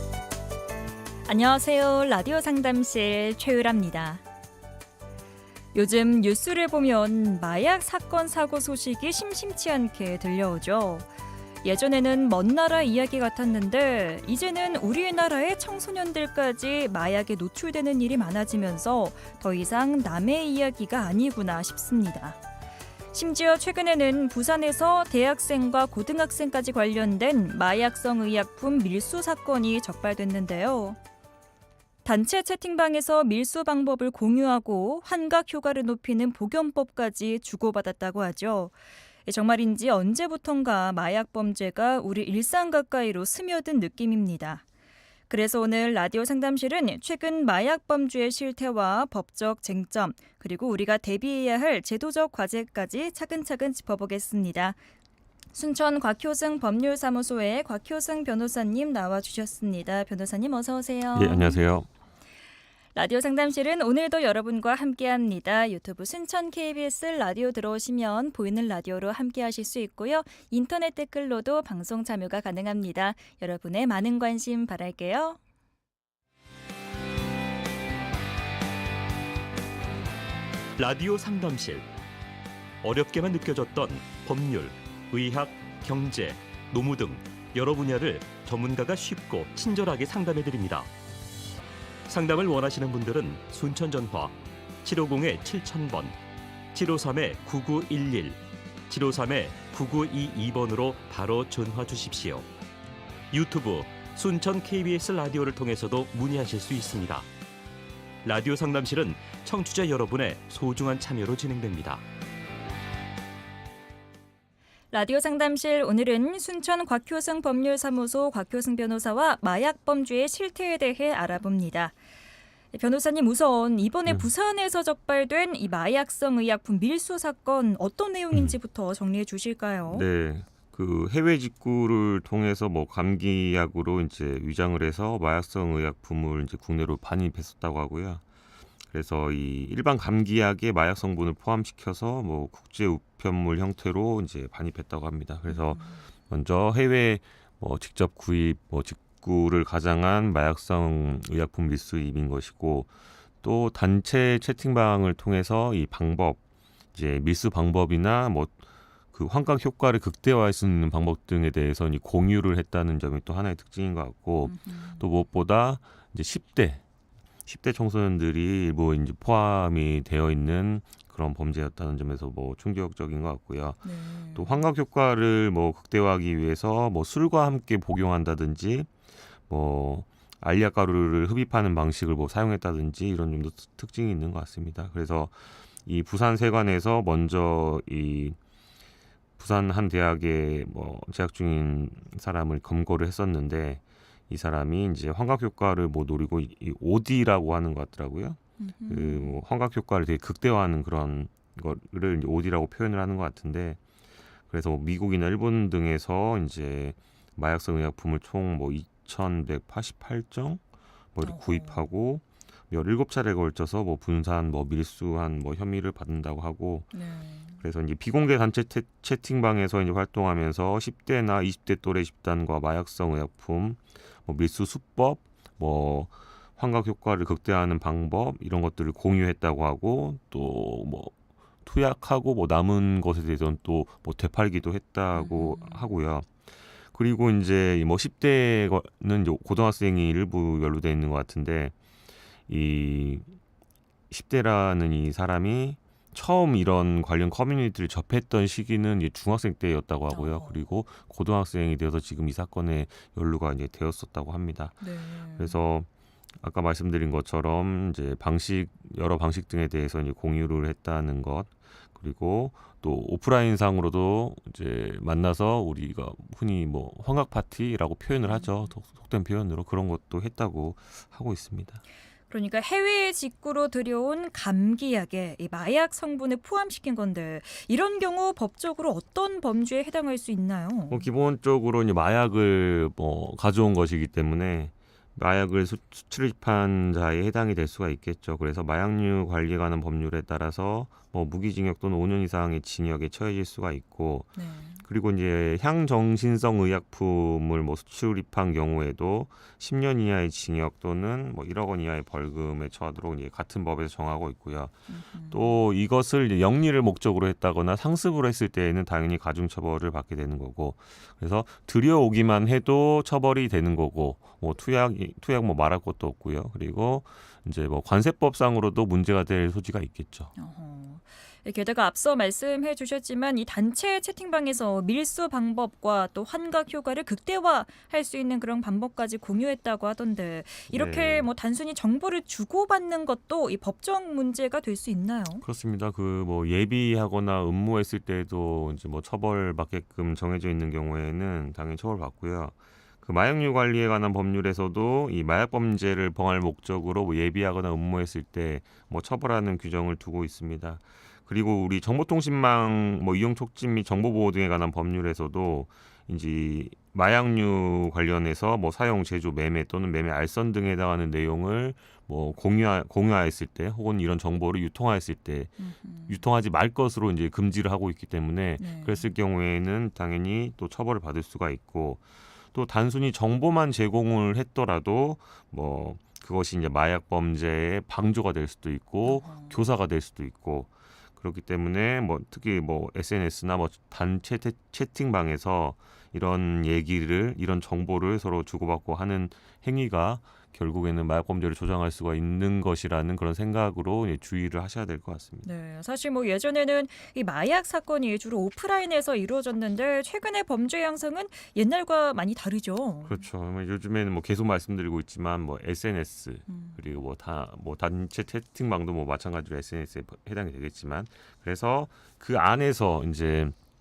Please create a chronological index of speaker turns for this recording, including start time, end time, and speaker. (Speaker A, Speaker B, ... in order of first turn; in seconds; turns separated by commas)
Speaker A: 1.2-4.2, Speaker A: 5.7-11.1, Speaker A: 11.6-22.4, Speaker A: 23.1-31.0, Speaker A: 32.0-38.7, Speaker A: 39.3-44.6, Speaker A: 45.3-54.8, Speaker A: 55.5-61.6, Speaker B: 61.1-61.9, Speaker A: 63.0-75.4, Speaker C: 80.8-81.9, Speaker C: 82.8-90.9, Speaker C: 92.1-96.2, Speaker C: 96.7-102.5, Speaker C: 103.3-107.3, Speaker C: 108.2-112.0, Speaker A: 114.9-122.0, Speaker A: 122.7-130.1, Speaker B: 129.9-138.2, Speaker B: 138.9-152.9, Speaker A: 145.5-146.0, Speaker B: 153.4-156.4, Speaker B: 156.9-158.6, Speaker B: 159.1-166.8, Speaker A: 164.4-165.1, Speaker B: 167.4-178.9, Speaker A: 173.8-174.6, Speaker B: 179.5-188.4, Speaker B: 189.4-203.8, Speaker A: 198.6-199.4, Speaker B: 204.5-210.6, Speaker B: 211.1-216.9, Speaker A: 211.2-211.9, Speaker A: 216.9-217.6, Speaker B: 217.6-241.7, Speaker A: 235.2-235.9, Speaker B: 242.5-243.2, Speaker B: 244.1-254.8, Speaker A: 250.1-250.6, Speaker A: 254.8-255.6, Speaker B: 255.4-255.9, Speaker B: 256.4-271.8, Speaker A: 272.3-281.1, Speaker B: 280.9-304.8, Speaker A: 294.4-294.8, Speaker A: 304.9-305.6, Speaker B: 305.3-320.3, Speaker A: 320.4-335.4, Speaker B: 330.7-331.3, Speaker B: 335.4-365.6, Speaker A: 365.6-366.2, Speaker B: 366.1-395.5, Speaker A: 368.6-369.0, Speaker A: 379.1-379.6, Speaker A: 395.4-403.2, Speaker B: 403.0-413.5, Speaker A: 406.5-406.8